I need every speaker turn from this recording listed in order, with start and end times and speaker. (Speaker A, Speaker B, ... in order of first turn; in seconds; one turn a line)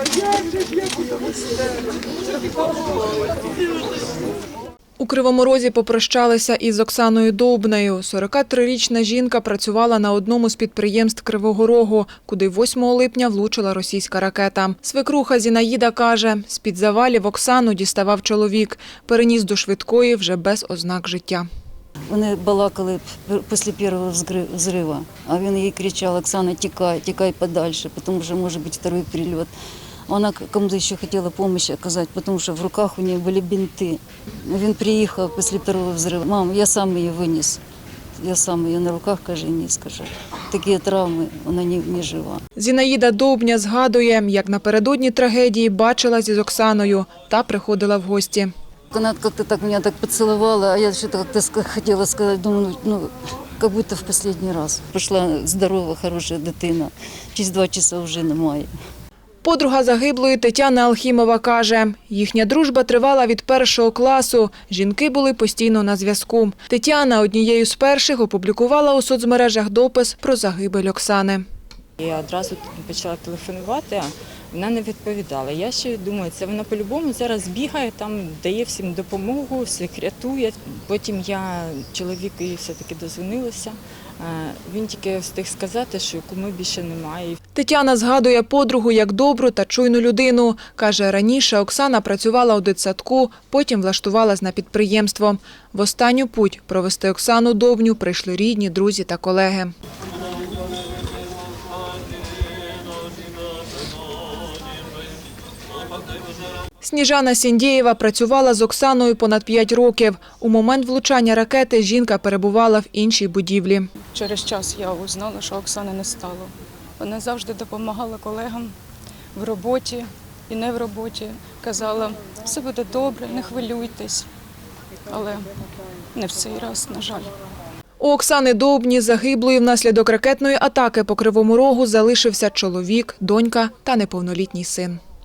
Speaker A: 5.0-21.5
Speaker B: 22.1-29.5
Speaker B: 30.1-37.6
Speaker B: 38.2-42.4
Speaker A: 42.6-48.5
Speaker B: 48.9-58.7
Speaker A: 59.4-71.5
Speaker C: 72.0-87.4
Speaker A: 87.5-99.7
Speaker A: 106.8-113.9
Speaker D: 114.0-118.7
Speaker D: 119.3-124.3
Speaker D: 125.1-125.5
Speaker D: 126.1-127.3
Speaker A: 128.0-135.0